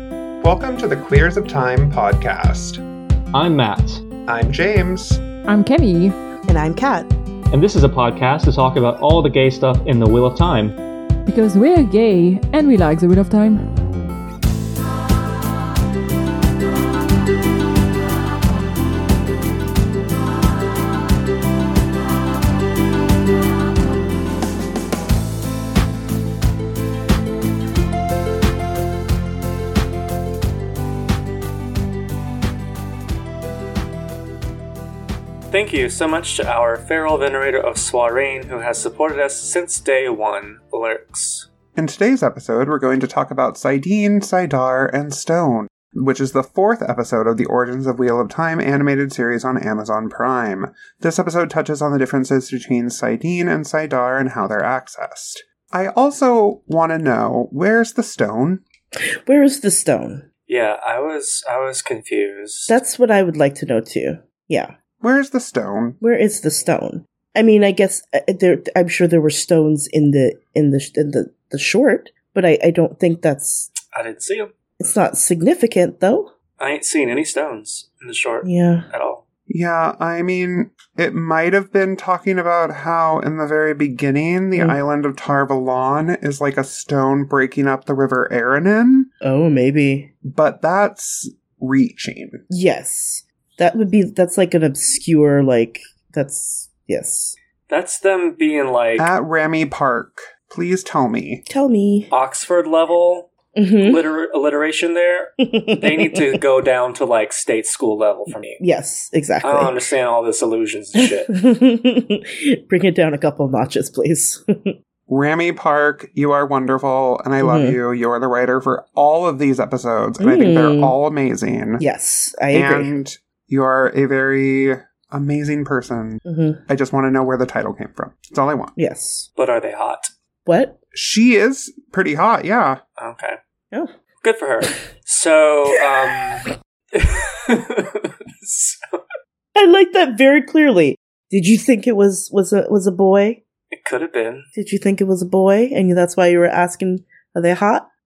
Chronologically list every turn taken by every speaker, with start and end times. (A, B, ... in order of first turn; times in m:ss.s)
0:00.4-0:02.8 A
0:03.3-0:04.0 B
0:04.2-0:05.2 A
0:05.5-0:06.1 C
0:06.5-0:07.1 D
0:07.5-0:10.7 B
0:11.2-0:13.7 C
0:35.5-0:41.5 E
0:41.8-0:58.6 A
0:59.0-1:00.2 D
1:00.5-1:02.8 E
1:02.7-1:04.7 D
1:05.0-1:06.0 A
1:06.0-1:13.7 D
1:13.9-1:14.5 E
1:14.8-1:16.3 D
1:16.6-1:19.2 E
1:18.4-1:18.8 D
1:19.5-1:29.1 A
1:24.5-1:24.8 D
1:29.2-1:30.1 D
1:30.2-1:32.4 A
1:32.5-1:37.4 D
1:37.7-1:39.1 E
1:39.0-1:41.4 A
1:41.5-1:42.1 D
1:42.1-1:43.3 E
1:43.6-1:44.0 D
1:43.8-1:48.6 E
1:45.4-1:46.4 D
1:48.6-1:49.8 D
1:49.4-1:51.3 E
1:51.0-1:54.7 D
1:55.1-2:01.8 A
1:57.4-1:57.8 D
2:00.2-2:01.0 D
2:01.8-2:02.9 D
2:02.5-2:08.7 A
2:06.2-2:06.6 D
2:08.8-2:09.3 D
2:09.4-2:10.1 E
2:10.4-2:10.8 D
2:10.9-2:12.8 A
2:13.0-2:13.4 E
2:14.2-2:19.0 E
2:19.5-2:23.4 D
2:23.7-2:24.5 E
2:24.5-2:27.9 D